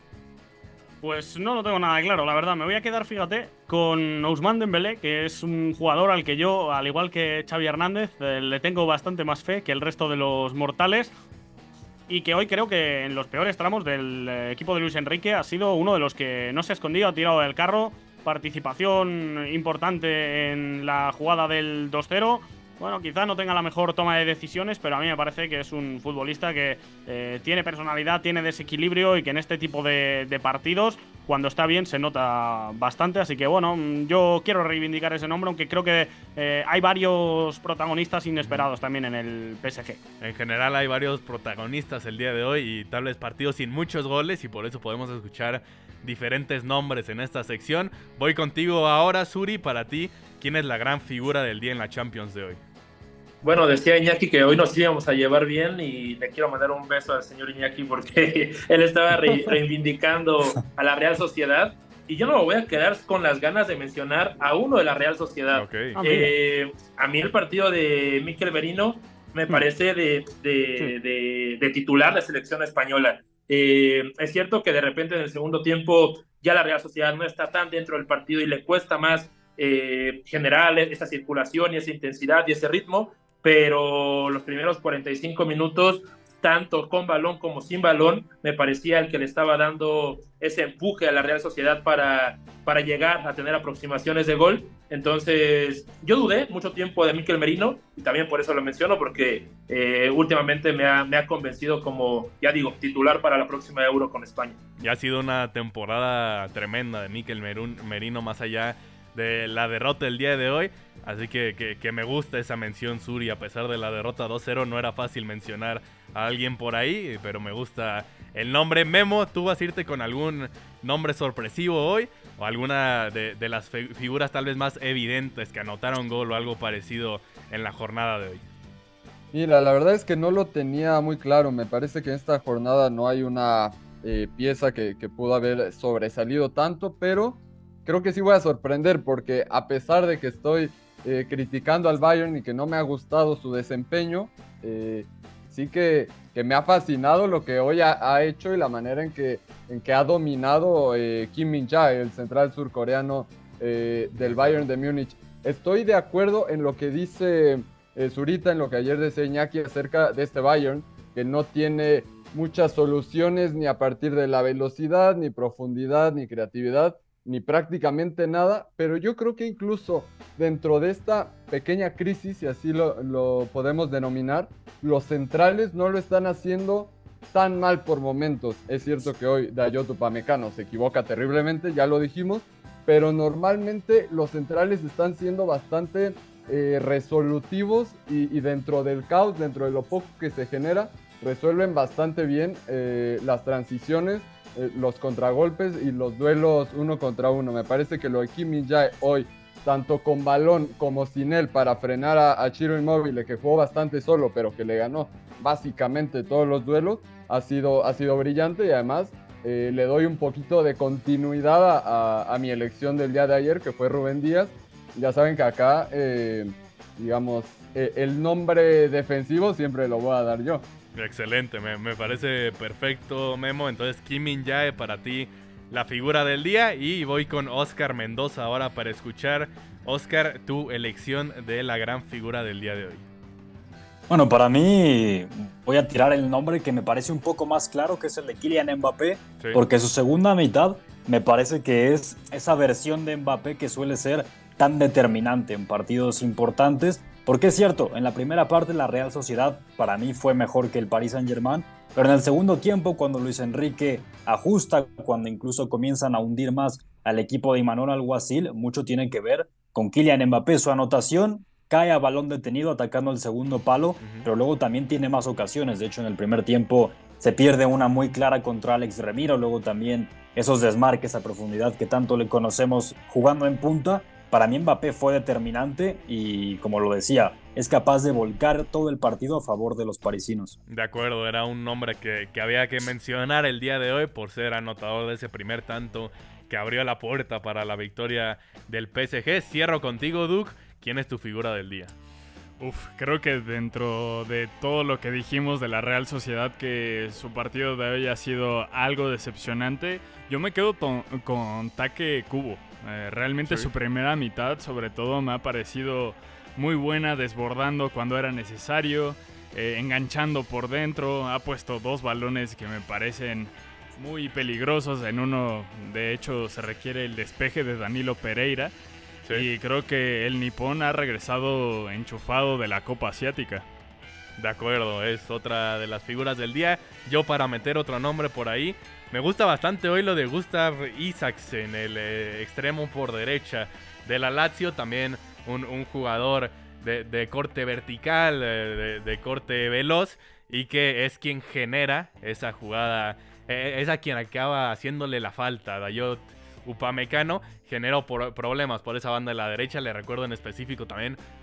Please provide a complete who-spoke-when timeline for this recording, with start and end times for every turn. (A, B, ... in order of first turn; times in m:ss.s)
0:01.0-0:11.1 A
0:12.1-0:40.0 A
0:40.2-0:52.6 B
0:53.4-1:44.6 C
1:05.5-1:06.0 B
1:06.0-1:06.3 A
1:44.8-2:08.4 B
2:09.3-3:40.6 D
2:34.2-2:34.6 B
3:40.9-3:53.0 B
3:54.1-4:40.6 E
4:40.7-4:51.9 B
4:52.6-5:18.7 F
5:03.4-5:03.7 B
5:19.3-5:23.6 F
5:24.4-5:51.2 B